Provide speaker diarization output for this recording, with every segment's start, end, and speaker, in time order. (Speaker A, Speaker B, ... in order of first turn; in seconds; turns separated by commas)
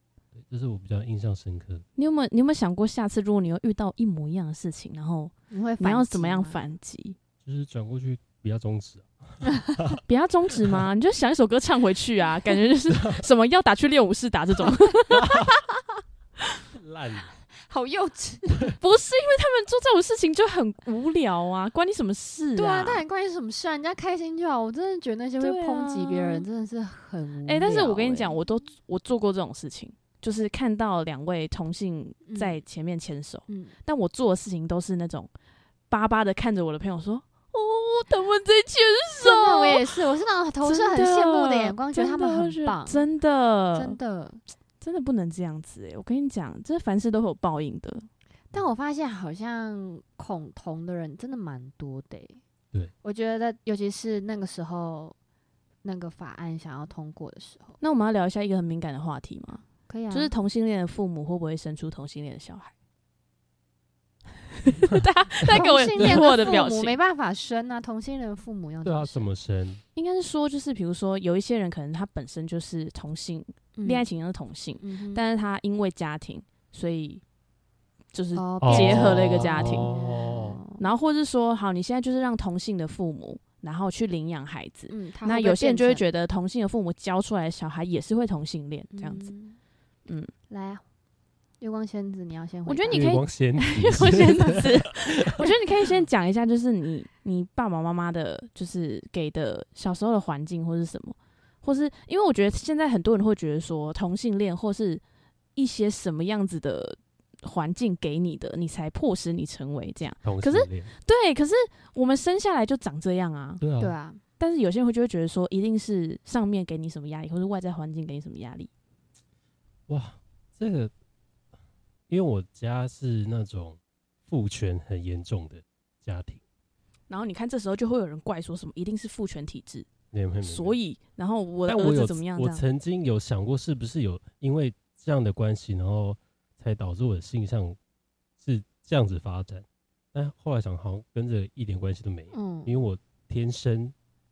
Speaker A: 0.3-1.8, Speaker B: 2.0-7.2, Speaker C: 5.5-6.6, Speaker A: 7.4-10.0, Speaker B: 10.1-15.4, Speaker A: 13.0-13.2, Speaker A: 15.1-15.5, Speaker A: 16.7-17.3, Speaker C: 17.7-18.7, Speaker B: 18.8-23.0, Speaker C: 22.6-28.4, Speaker B: 25.4-26.4, Speaker B: 27.4-35.3, Speaker C: 32.2-32.6, Speaker C: 33.5-33.8, Speaker B: 35.9-39.9, Speaker C: 39.2-43.0, Speaker B: 40.6-44.0, Speaker C: 43.7-44.4, Speaker B: 44.8-48.1, Speaker C: 48.5-52.4, Speaker C: 53.0-55.1, Speaker C: 55.8-57.8, Speaker B: 57.8-62.7, Speaker C: 59.9-60.3, Speaker B: 64.6-67.0, Speaker A: 65.5-66.4, Speaker C: 65.5-69.3, Speaker A: 68.8-69.8, Speaker B: 69.9-77.2, Speaker C: 73.8-74.0, Speaker C: 74.8-75.2, Speaker B: 78.1-79.9, Speaker C: 78.3-80.8, Speaker A: 78.6-80.6, Speaker B: 80.8-89.3, Speaker C: 84.9-86.0, Speaker C: 88.9-89.6, Speaker B: 90.1-90.3, Speaker C: 90.5-90.8, Speaker C: 91.6-93.2, Speaker B: 92.7-105.0, Speaker A: 92.9-95.5, Speaker B: 105.5-113.6, Speaker A: 110.2-110.9, Speaker A: 113.6-113.9, Speaker C: 113.8-114.2, Speaker B: 114.4-118.7, Speaker A: 119.9-120.9, Speaker A: 122.1-126.4, Speaker B: 127.1-129.9, Speaker A: 130.1-130.8, Speaker B: 130.4-132.6, Speaker A: 131.7-137.8, Speaker A: 138.4-143.9, Speaker C: 142.3-142.7